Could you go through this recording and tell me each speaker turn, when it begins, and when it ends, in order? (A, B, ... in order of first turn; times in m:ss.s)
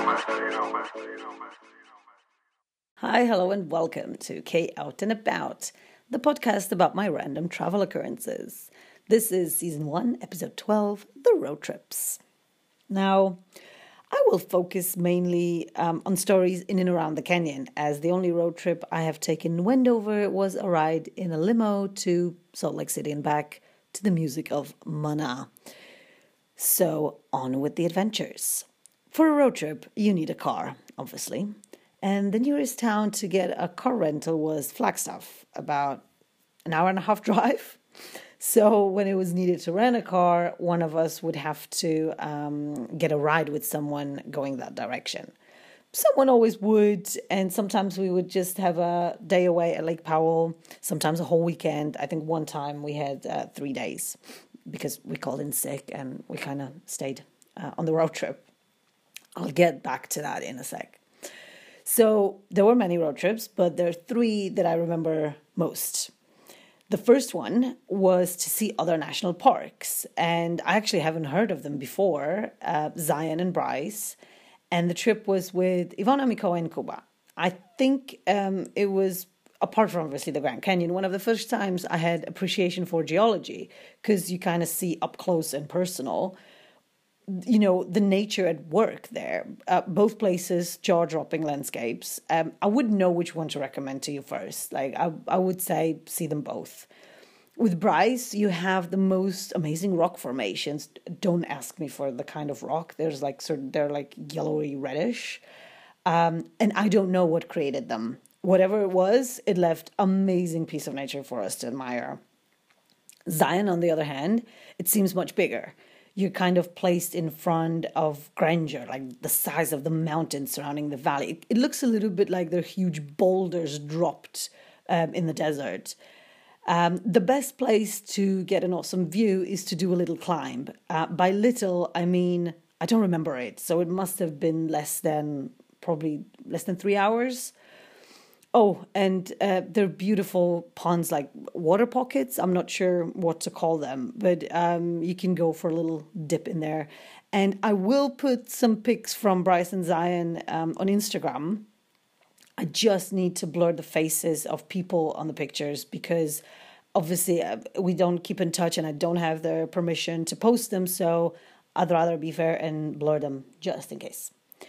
0:03.0-0:12.2 A
0:12.9-0:13.4 A
0:14.1-0:25.5 A
0:26.6-0:31.5 A
0:32.0-0:36.0 A
0:36.7-0:37.8 A
0:38.4-0:45.4 A
0:45.9-0:58.4 A
0:59.4-1:01.0 A
1:01.8-1:06.1 A
1:06.9-1:14.2 A
1:14.7-1:26.4 A
1:27.3-1:36.9 A
1:37.6-1:45.4 A
1:46.0-1:52.2 A
1:53.3-2:06.0 A
2:06.7-2:17.5 A
2:18.5-2:31.7 A
2:32.6-2:36.4 A
2:37.0-2:44.3 A